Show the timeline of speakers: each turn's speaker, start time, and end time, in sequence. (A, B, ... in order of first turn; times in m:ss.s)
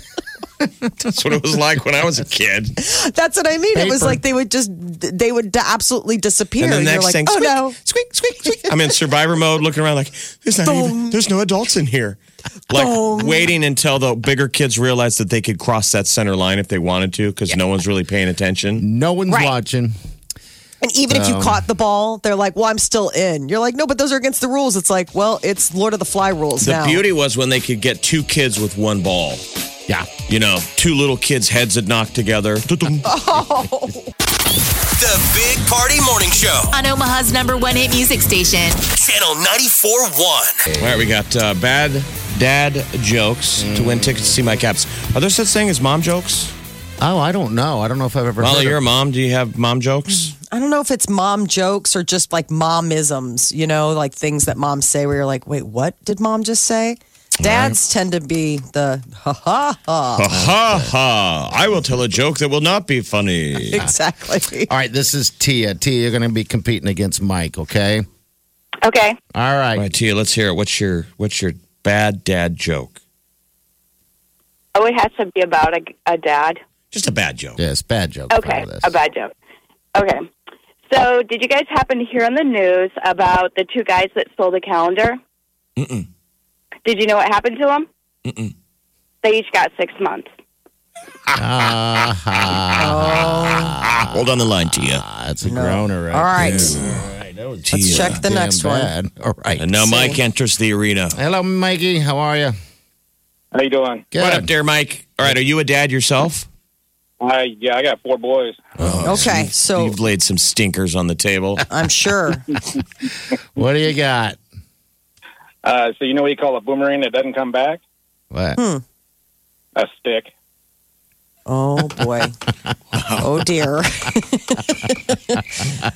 0:01.0-0:02.8 A
0:02.8-0:07.8 B
0:03.8-0:04.2 C
0:06.6-0:07.9 A
0:08.4-0:18.8 A
0:10.6-0:11.2 B
0:12.7-0:13.5 B
0:18.8-0:20.0 C
0:19.3-0:19.6 B
0:20.8-0:27.0 B
0:21.1-0:21.6 C
0:26.6-0:29.4 A
0:30.3-0:33.1 A
0:33.0-0:34.1 B
0:35.0-0:36.8 D
0:36.7-0:38.8 E
0:38.8-0:40.6 D
0:40.7-0:41.1 C
0:40.8-0:46.5 A
0:43.6-0:44.4 C
0:47.0-0:48.8 C
0:48.4-0:50.4 A
0:50.4-1:00.2 B
0:57.4-0:57.8 A
1:00.2-1:03.8 A
1:00.3-1:00.9 C
1:03.7-1:04.7 B
1:04.7-1:08.1 C
1:08.8-1:09.2 F
1:09.3-1:09.9 C
1:09.8-1:13.0 A
1:14.8-1:16.6 F
1:16.9-1:17.6 A
1:17.6-1:18.9 C
1:18.3-1:19.3 F
1:20.0-1:20.3 F
1:20.9-1:25.2 F
1:25.8-1:26.1 A
1:26.8-1:27.9 F
1:28.2-1:28.5 A
1:29.2-1:30.3 F
1:31.3-1:39.7 C
1:32.8-1:33.8 B
1:34.0-1:35.0 A
1:35.4-1:36.8 B
1:36.4-1:37.0 A
1:37.7-1:38.2 A
1:37.8-1:38.9 B
1:39.6-1:41.2 A
1:39.8-1:40.2 B
1:41.1-1:42.6 C
1:43.5-1:44.1 G
1:44.1-1:44.5 C
1:44.2-1:46.5 A
1:47.2-1:48.7 G
1:48.8-1:49.5 C
1:48.8-1:51.6 A
1:49.0-1:50.0 B
1:51.7-1:52.5 B
1:53.6-1:54.4 C
1:55.6-1:57.8 G
1:58.3-1:58.6 C
1:58.6-1:58.8 B
1:59.8-2:00.3 G
2:01.5-2:02.4 B
2:03.2-2:05.4 B